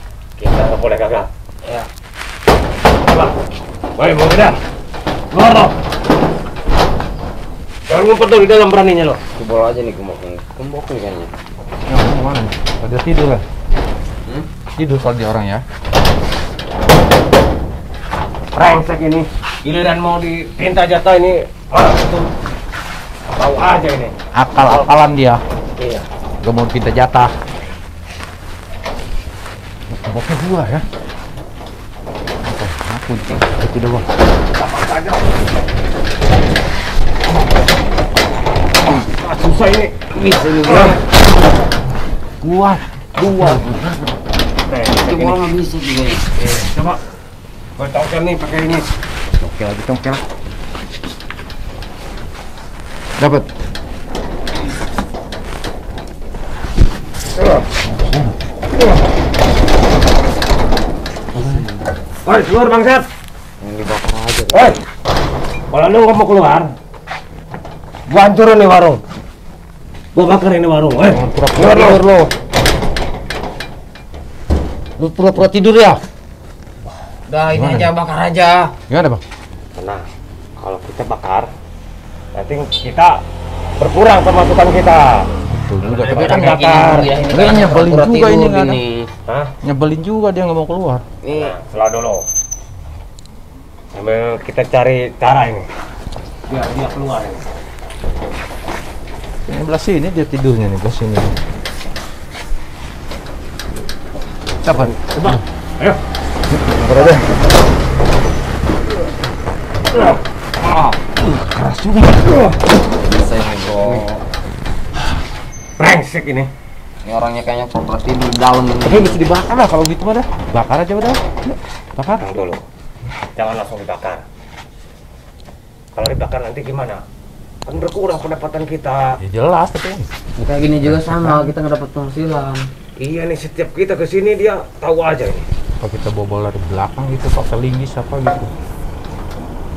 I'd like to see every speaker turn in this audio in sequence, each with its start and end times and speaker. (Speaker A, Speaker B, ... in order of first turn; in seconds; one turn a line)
Speaker A: 0.4-1.3
Speaker A: 3.1-3.3
Speaker A: 4.0-4.6
Speaker A: 5.3-5.7
Speaker A: 7.9-9.2
Speaker B: 9.4-11.3
Speaker C: 11.9-13.4
Speaker C: 14.8-15.6
Speaker A: 18.5-22.3
Speaker A: 23.3-24.1
Speaker C: 24.3-25.4
Speaker C: 26.4-27.3
Speaker C: 29.9-30.8
Speaker C: 32.5-34.1
Speaker A: 34.6-35.2
Speaker A: 39.2-39.9
Speaker B: 40.1-41.0
Speaker A: 40.6-41.0
Speaker C: 42.4-43.9
Speaker A: 43.2-43.6
Speaker A: 44.7-45.4
Speaker B: 45.0-46.2
Speaker A: 46.7-47.0
Speaker A: 47.8-48.9
Speaker C: 49.4-50.2
Speaker C: 53.2-53.5
Speaker C: 57.9-58.3
Speaker B: 61.4-61.9
Speaker A: 62.2-63.0
Speaker B: 63.6-64.8
Speaker A: 64.5-64.8
Speaker A: 65.7-66.7
Speaker A: 68.1-69.0
Speaker A: 70.2-72.0
Speaker C: 71.1-72.3
Speaker C: 75.0-76.0
Speaker B: 77.3-78.8
Speaker C: 77.5-77.9
Speaker C: 78.9-79.2
Speaker A: 79.8-80.0
Speaker A: 80.6-81.5
Speaker A: 82.3-83.2
Speaker A: 83.8-85.3
Speaker C: 85.6-88.8
Speaker A: 85.8-87.1
Speaker B: 86.1-89.1
Speaker A: 89.3-89.5
Speaker C: 89.6-91.0
Speaker B: 91.2-91.5
Speaker A: 91.4-92.2
Speaker A: 94.0-95.7
Speaker A: 96.5-97.5
Speaker C: 99.5-101.3
Speaker C: 104.6-105.4
Speaker A: 105.0-106.0
Speaker C: 106.6-107.3
Speaker C: 110.7-112.5
Speaker B: 113.0-114.1
Speaker A: 115.8-116.5
Speaker B: 117.0-119.3
Speaker C: 118.9-121.2
Speaker C: 122.0-122.3
Speaker A: 122.2-122.6
Speaker A: 123.4-124.2
Speaker A: 126.0-127.0
Speaker A: 127.7-129.1
Speaker C: 129.2-130.1
Speaker B: 130.4-132.7
Speaker C: 130.8-131.5
Speaker A: 133.0-135.5
Speaker C: 135.8-138.5